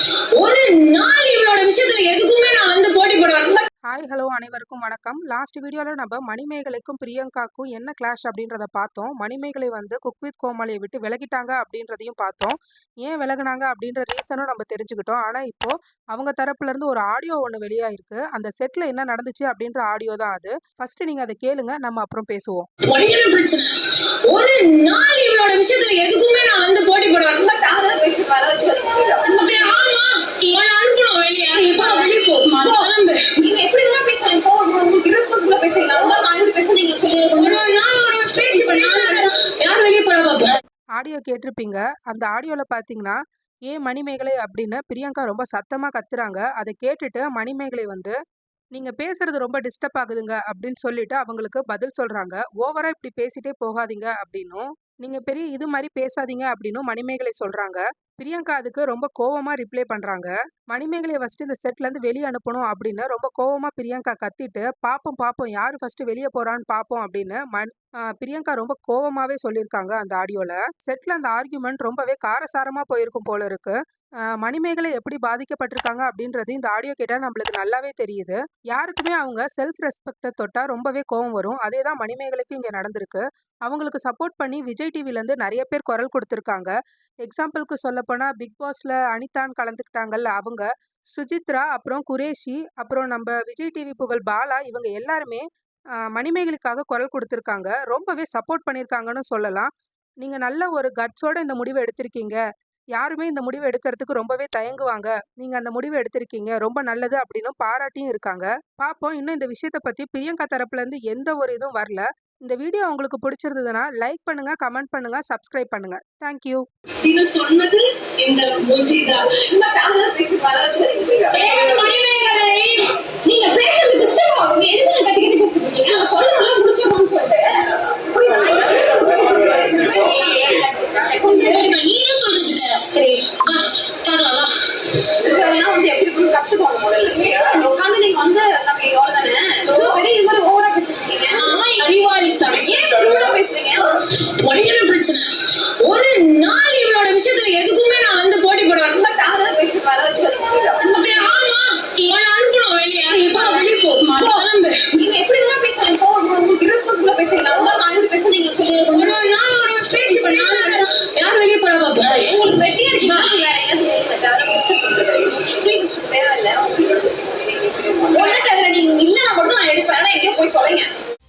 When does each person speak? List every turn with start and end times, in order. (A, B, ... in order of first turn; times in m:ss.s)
0:00.4-0:03.6 A
0:03.9-0:22.7 B
0:22.8-0:23.7 A
0:24.2-0:27.4 A
0:27.3-0:29.4 C
0:29.3-0:33.2 A
0:33.4-0:37.4 C
0:37.1-0:40.5 A
0:38.6-0:39.2 C
0:41.0-0:48.2 B
0:48.7-1:13.8 B
1:14.4-1:35.4 B
1:36.1-1:39.7 B
1:40.2-1:42.4 B
1:42.9-1:56.6 B
1:57.0-1:59.3 A
1:59.3-2:01.9 C
2:01.3-2:02.9 A
2:03.2-2:11.7 C
2:09.3-2:14.5 A
2:15.2-2:21.6 C
2:17.2-2:17.6 A
2:19.6-2:20.0 A
2:21.3-2:23.3 A
2:22.5-2:24.0 C
2:24.2-2:25.2 A
2:25.8-2:29.0 A
2:28.9-2:31.0 C
2:30.8-2:34.8 A
2:34.9-2:39.2 C
2:38.6-2:42.3 A
2:39.9-2:40.8 C
2:42.1-2:50.9 C
2:43.0-2:43.3 A
2:48.1-2:48.4 A